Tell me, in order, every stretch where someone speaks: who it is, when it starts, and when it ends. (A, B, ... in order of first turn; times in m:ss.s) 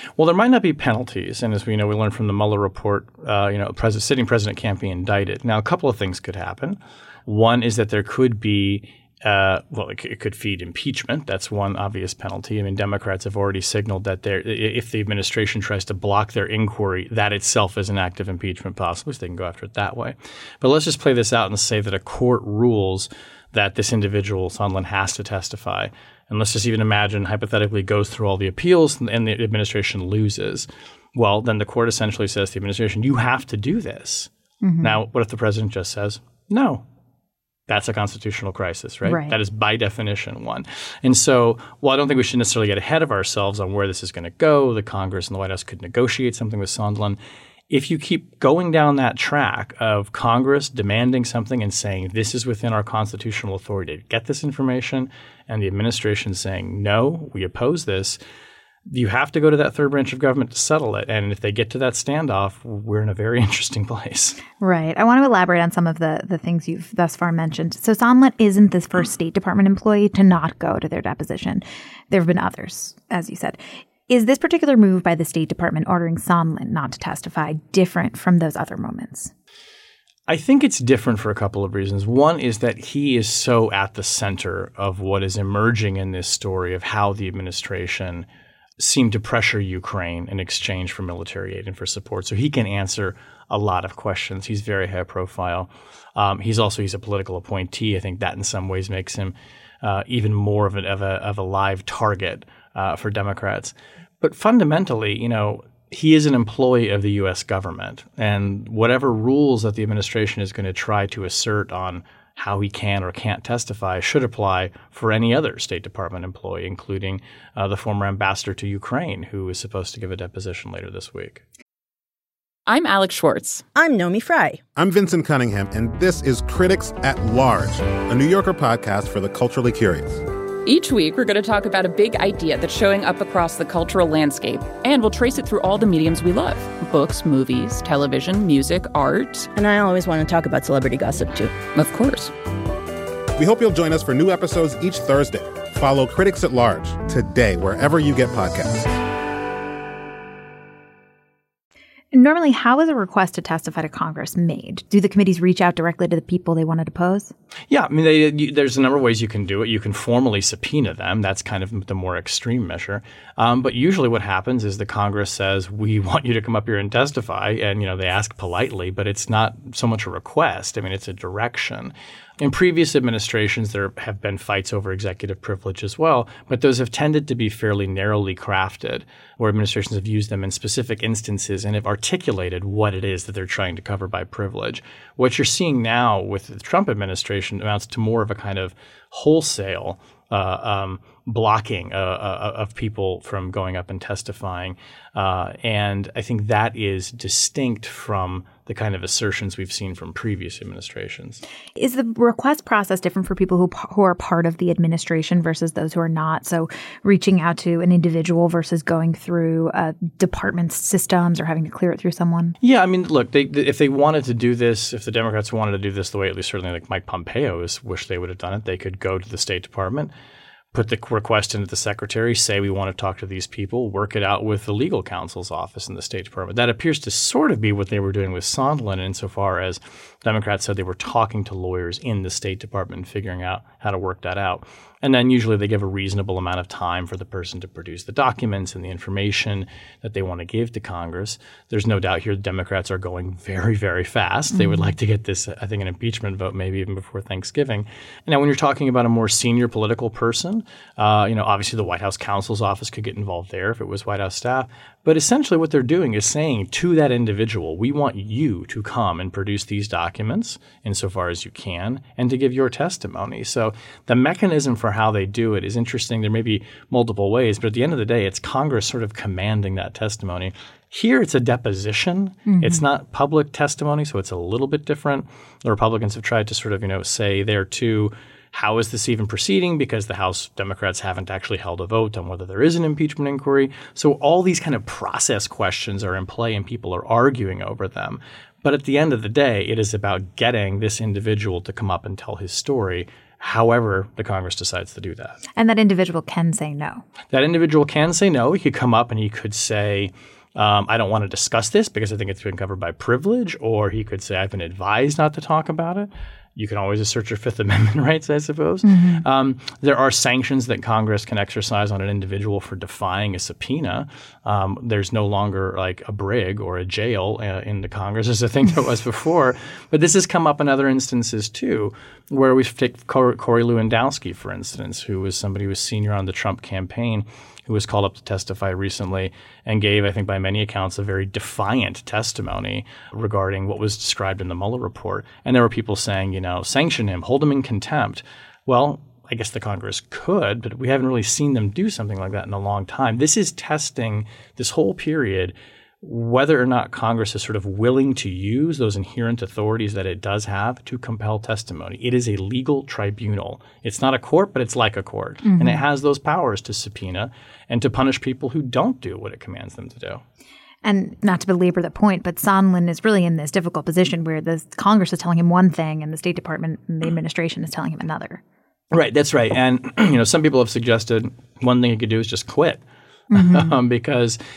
0:00.2-0:34.3 A
0:34.6-0:35.0 B
0:34.8-0:36.8 A
0:37.7-0:47.2 A
0:39.0-0:39.4 B
0:47.7-0:58.2 A
0:58.8-1:04.4 A
1:04.6-1:19.3 B
1:20.3-1:28.2 A
1:28.8-2:01.4 A
2:02.7-2:03.6 C
2:03.7-2:04.6 D
2:04.7-2:10.2 E
2:10.6-2:19.5 C
2:19.5-2:21.6 D
2:21.7-2:22.3 C
2:23.4-2:28.9 E
2:32.1-2:37.3 B
2:37.7-3:21.4 A
3:21.8-3:32.6 B
3:32.6-3:40.1 A
3:40.7-4:55.4 A
4:04.5-4:04.9 B
4:32.5-4:32.8 B
4:55.6-4:57.0 B
4:57.3-6:00.2 A
5:08.8-5:09.2 B
5:55.4-5:55.8 B
6:00.8-6:08.4 B
6:08.9-6:12.8 A
6:13.3-6:13.8 B
6:13.3-6:14.4 A